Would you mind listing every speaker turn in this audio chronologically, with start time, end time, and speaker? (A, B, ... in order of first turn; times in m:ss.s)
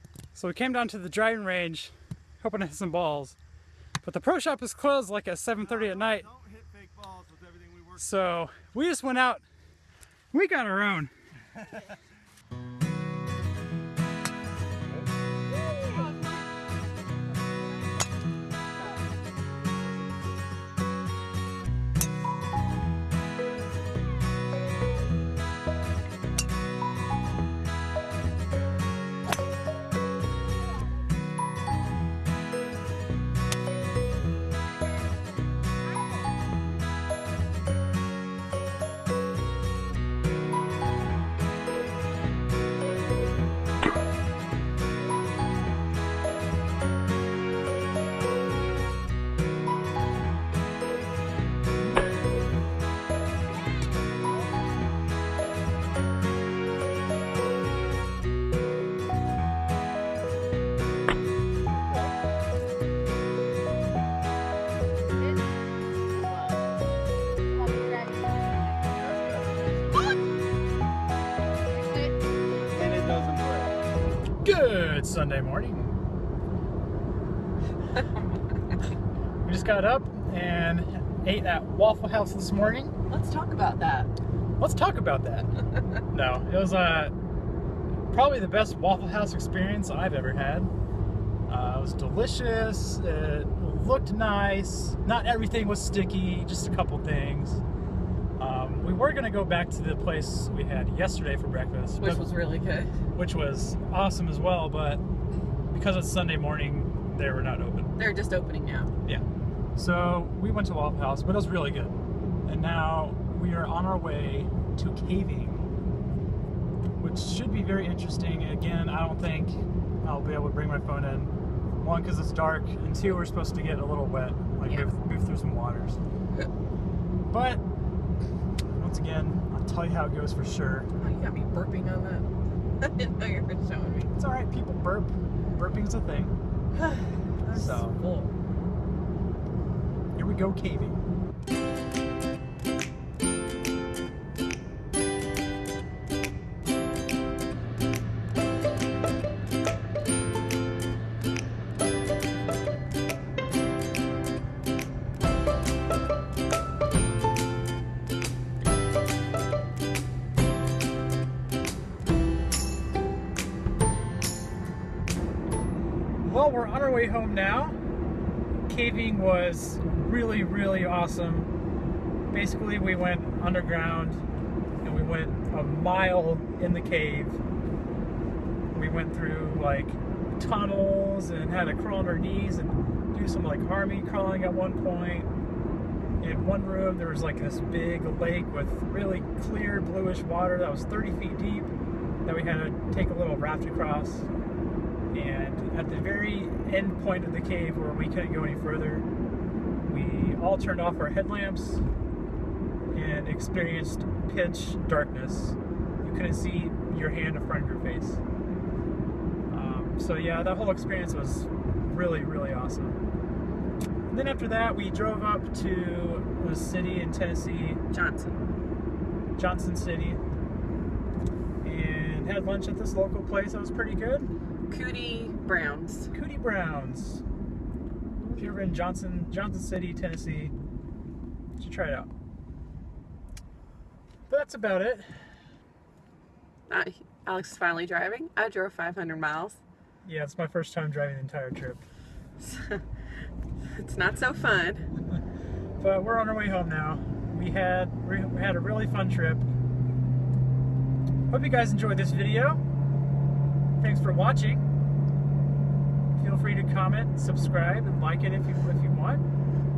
0:00.3-0:03.4 A
0:04.0-0:06.3 A
0:05.6-0:08.0 B
0:08.0-0:09.4 A
0:10.3-0:11.1 A
1:09.0-1:09.9 B
1:12.5-1:13.8 B
1:14.4-1:15.9 A
1:19.4-1:22.9 A
1:23.1-1:24.1 C
1:24.6-1:25.5 A
1:26.1-1:27.1 A
1:28.1-1:30.7 A
1:31.5-1:37.6 A
1:38.4-1:42.2 A
1:42.0-1:42.9 C
1:43.1-1:45.0 A
1:45.7-1:47.9 A
1:48.0-1:48.9 C
1:49.8-1:55.7 A
1:57.0-2:06.0 A
2:04.6-2:04.9 C
2:07.3-2:07.6 A
2:08.8-2:10.9 A
2:11.0-2:12.3 C
2:12.8-2:14.1 C
2:14.1-2:16.3 A
2:16.8-2:18.3 C
2:17.5-2:18.0 A
2:20.1-2:21.0 A
2:46.2-2:47.8 A
2:48.7-2:51.5 A
2:52.3-2:54.2 A
2:54.8-2:57.4 A
2:58.7-3:05.3 A
3:06.2-3:11.7 A
3:12.2-3:14.3 A
3:15.1-3:19.1 A
3:19.8-3:21.8 A
3:22.9-3:28.2 A
3:29.5-3:33.0 A
3:34.1-3:37.8 A
3:37.9-3:38.4 C
3:39.4-3:40.2 A
3:41.6-3:44.3 A
3:44.7-3:46.1 C
3:46.1-3:47.2 A
3:48.3-3:50.5 A
3:51.6-3:52.1 A
3:54.3-3:55.2 A
3:56.7-3:59.6 C
4:00.0-4:01.8 A
4:02.4-4:02.8 C
4:03.7-4:04.9 C
4:05.8-4:09.5 A
4:11.3-4:12.6 A
4:13.8-4:14.6 A
4:16.2-4:19.2 A